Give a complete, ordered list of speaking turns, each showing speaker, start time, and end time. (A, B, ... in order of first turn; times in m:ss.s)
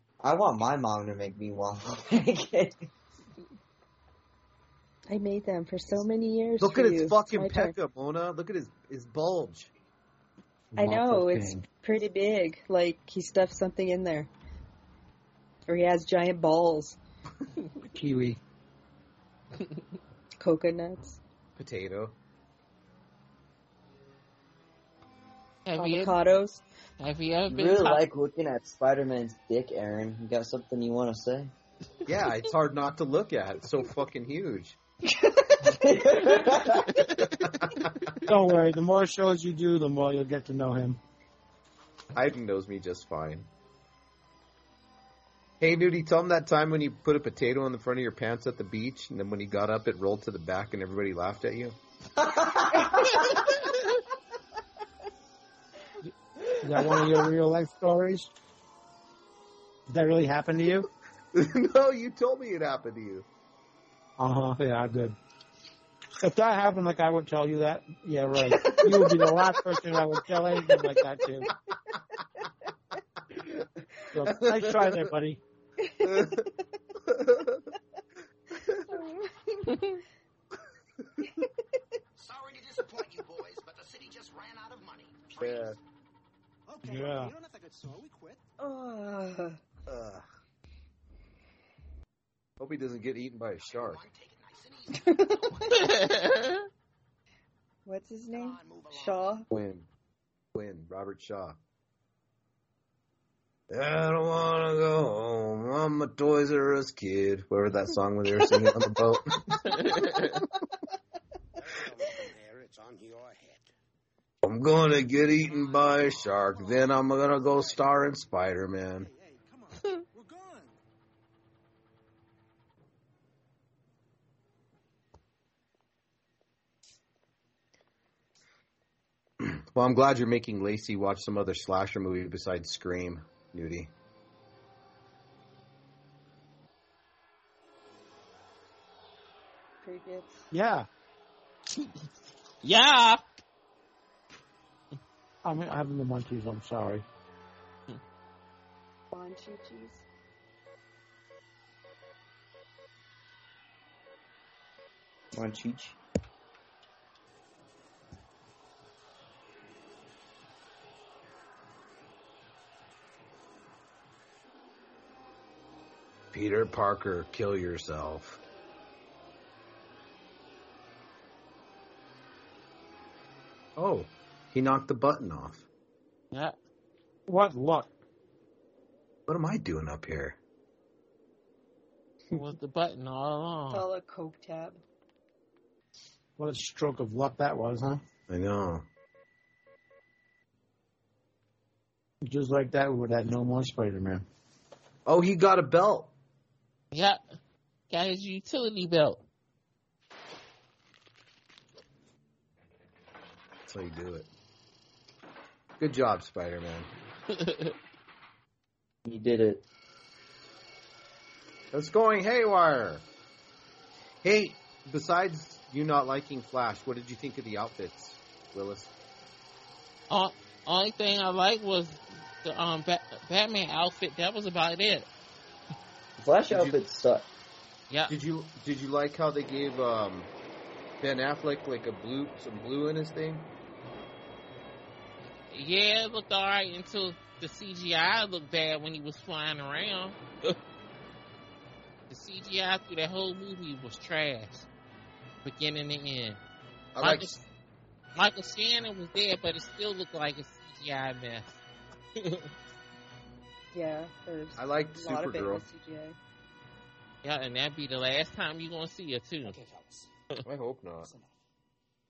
0:00.2-0:02.8 A
0:05.1-0:07.7 B
0:06.6-0:09.7 C
0:10.7-0:11.6 D
0:10.8-0:14.3 B
0:15.7-0:17.0 B
0:17.9-0:18.4 D
0:20.4-0:21.2 B
0:21.6-0:22.2 C
0:25.6-0:26.2 E
0:25.8-0:26.6 B
0:27.0-0:28.0 E
0:27.5-0:31.5 A
0:32.1-0:34.8 C
0:35.3-0:36.8 A
0:36.9-0:37.3 E
0:37.3-0:38.2 C
0:38.2-0:41.0 D
0:42.1-0:43.5 C
0:45.6-0:51.8 C
0:52.2-0:53.4 A
0:56.0-0:58.3 D
0:56.6-0:57.1 A
0:59.9-1:00.9 D
1:01.3-1:03.2 C
1:04.2-1:05.2 D
1:06.2-1:11.5 D
1:08.6-1:09.0 C
1:14.1-1:15.4 D
1:14.3-1:15.1 C
1:15.8-1:16.4 B
1:16.0-1:16.5 C
1:17.1-1:17.6 C
1:18.9-1:20.0 B
1:22.2-1:25.8 F
1:25.4-1:25.8 C
1:26.7-1:28.4 G
1:26.8-1:27.3 D
1:28.6-1:29.6 B
1:29.9-1:30.2 C
1:32.6-1:34.0 C
1:33.6-1:35.7 F
1:35.0-1:35.8 B
1:35.7-1:36.6 E
1:37.8-1:39.4 B
1:38.3-1:39.4 F
1:39.5-1:39.9 C
1:40.5-1:41.6 C
1:43.7-1:50.3 C
1:49.9-1:50.2 E
1:51.6-1:53.7 F
1:54.4-1:59.1 C
1:55.4-1:57.8 G
1:56.0-1:56.5 F
1:59.0-2:00.7 G
2:09.4-2:13.9 C
2:19.8-2:20.5 B
2:20.5-2:20.9 D
2:22.6-2:23.2 E
2:25.4-2:27.0 D
2:29.1-2:30.0 B
2:35.3-2:36.0 A
2:46.3-2:48.4 C
2:53.8-2:55.6 C
2:57.3-2:57.9 D
2:59.3-3:00.4 C
3:02.3-3:03.8 E
3:03.7-3:04.8 B
3:06.4-3:08.0 D
3:08.3-3:08.8 C
3:12.2-3:14.2 D
3:15.0-3:16.1 C
3:16.9-3:17.2 E
3:17.9-3:19.2 E
3:23.6-3:24.3 C
3:25.8-3:26.9 C
3:27.3-3:27.7 E
3:29.0-3:29.6 A
3:31.7-3:33.1 C
3:34.2-3:38.9 C
3:40.1-3:45.1 E
3:46.2-3:47.2 A
3:46.5-3:46.8 C
3:47.9-3:48.2 E
3:48.1-3:50.3 C
3:51.0-3:53.5 C
3:55.5-4:00.6 E
4:02.1-4:04.7 E
4:05.4-4:06.4 E
4:06.9-4:07.4 C
4:07.0-4:07.4 E
4:08.2-4:11.6 E
4:12.2-4:12.5 E
4:13.7-4:16.2 B
4:14.6-4:15.6 C
4:17.2-4:19.6 E
4:19.4-4:20.1 G
4:20.4-4:21.1 C
4:21.0-4:21.4 G